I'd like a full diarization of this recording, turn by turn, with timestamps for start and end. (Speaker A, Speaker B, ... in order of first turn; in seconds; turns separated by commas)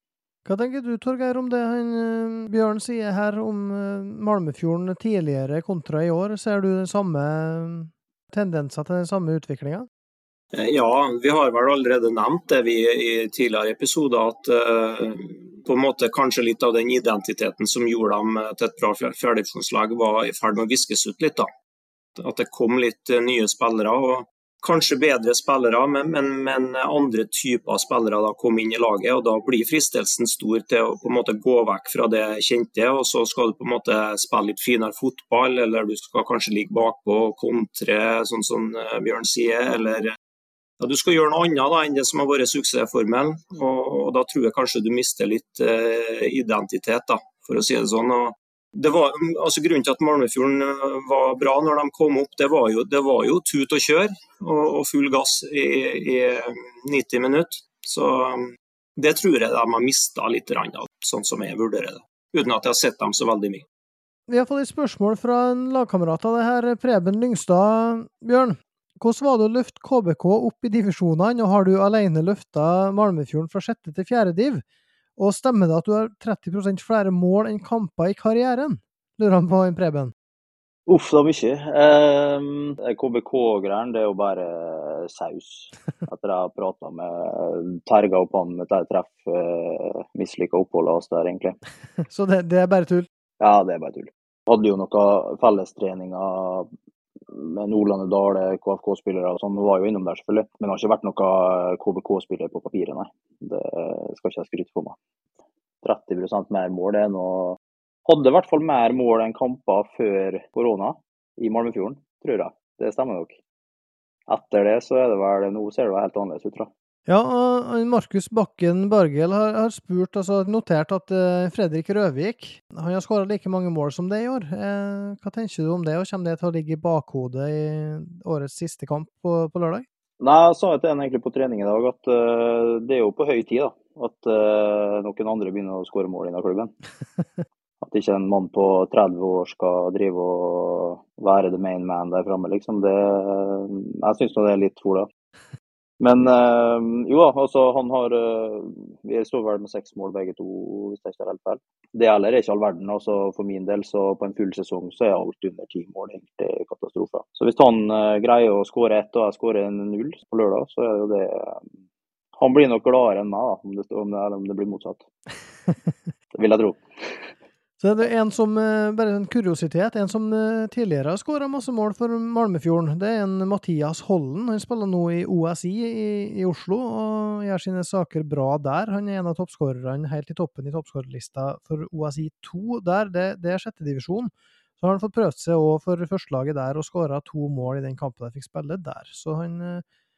Speaker A: 0.5-9.9, Speaker B: 10.5-21.5, Speaker B: 22.2-40.1, Speaker B: 40.8-63.6, Speaker A: 64.3-74.6, Speaker A: 75.2-80.1, Speaker C: 80.9-91.6, Speaker A: 92.0-93.1, Speaker C: 93.4-96.7, Speaker C: 97.3-105.0, Speaker C: 105.8-113.4, Speaker C: 114.3-116.7, Speaker A: 117.1-129.8, Speaker C: 130.2-136.7, Speaker C: 137.8-145.1, Speaker C: 146.0-161.7, Speaker C: 162.4-165.0, Speaker C: 166.3-167.2, Speaker A: 167.8-189.8